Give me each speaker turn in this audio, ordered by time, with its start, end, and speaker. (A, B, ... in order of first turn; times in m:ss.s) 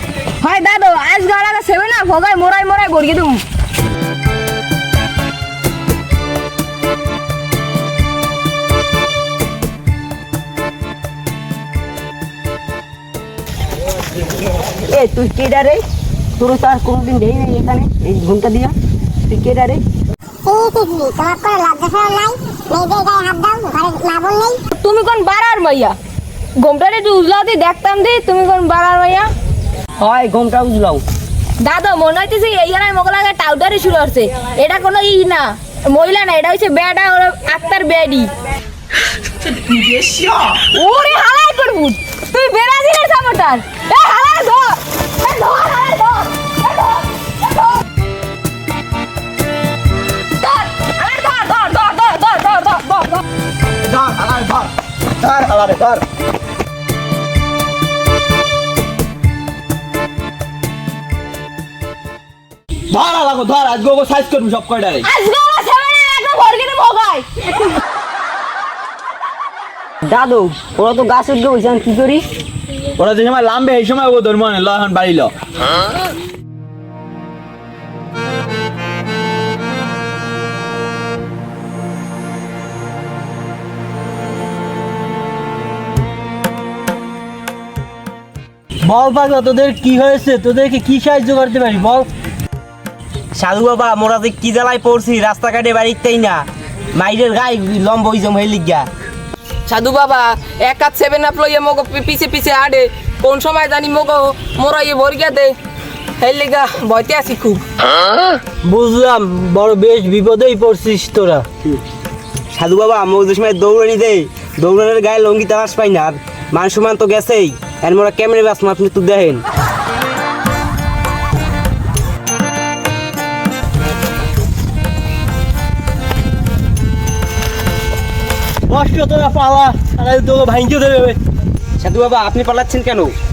0:00.4-0:03.4 A
0:14.9-0:15.8 B
0:16.4-0:18.7 B
0:19.3-0:19.8 B
0:20.4-0:24.6 C
0:24.7-0:26.0 A
0:26.6-0:29.3 A
0:30.0-0:31.0 B
0:31.6-0:38.3 A
0:40.6-0:47.0 A
0:50.4-0:53.2 A
0:53.9-0:56.0 D
1:02.9-1:05.0 D
1:05.0-1:07.3 A
1:10.0-1:12.2 B
1:13.0-1:15.3 D
1:28.8-1:32.1 E
1:33.4-1:36.4 F
1:37.0-1:38.9 F
1:39.7-1:45.5 G
1:46.2-1:47.6 G
1:48.6-1:51.4 E
1:52.5-1:59.4 F
2:08.7-2:11.2 E
2:11.8-2:13.1 F